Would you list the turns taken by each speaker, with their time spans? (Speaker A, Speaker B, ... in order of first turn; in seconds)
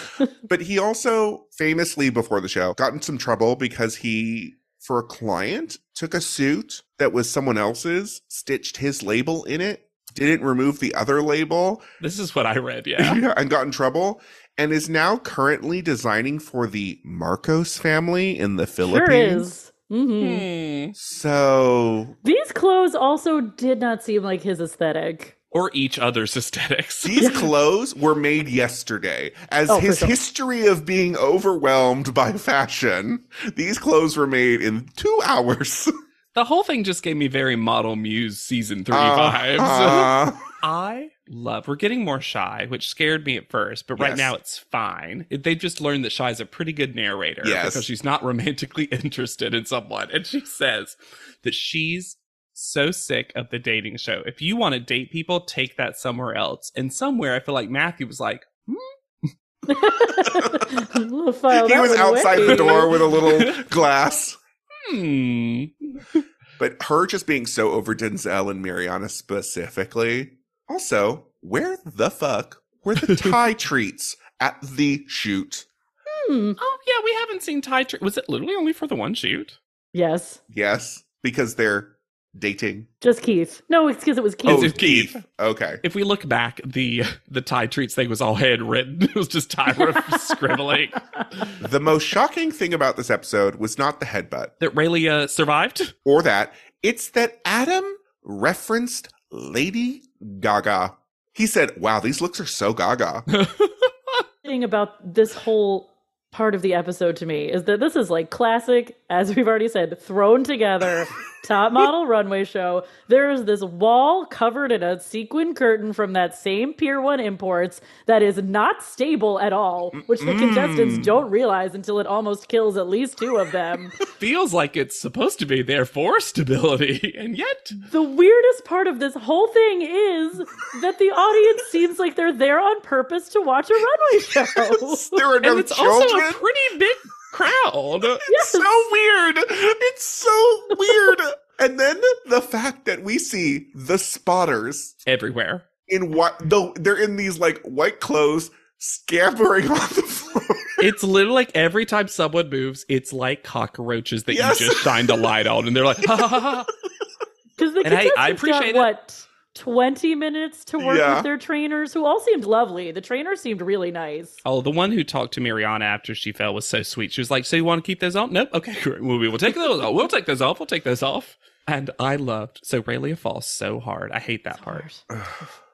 Speaker A: 0.4-11.8, 13.0-19.4, 20.9-22.1, 27.0-35.9, 38.9-40.4, 44.0-44.3, 47.4-47.9, 60.2-60.7, 61.5-64.4, 66.6-75.7, 80.5-82.9, 84.5-85.8, 91.6-94.5, 96.0-103.3, 119.9-121.2, 134.5-136.4, 138.2-145.0, 145.9-150.8, 154.3-155.3, 160.8-161.3, 175.1-175.4
Speaker B: 12.0-13.2, 20.2-20.9, 25.5-27.2, 36.3-58.9, 62.3-63.6, 64.8-66.2, 73.0-73.3, 76.6-79.6, 84.5-85.2, 85.8-91.5, 94.6-95.9, 103.3-104.2, 124.0-127.8, 135.4-138.2, 145.1-145.7, 150.8-156.7, 157.8-158.9, 164.4-174.8
Speaker C: 18.9-20.4, 22.2-25.3, 29.7-30.1, 59.7-62.9, 76.1-76.6, 79.9-80.4, 83.0-84.8, 89.9-90.3, 104.4-124.0, 127.9-135.2, 138.3-138.8, 157.6-164.4, 174.6-175.0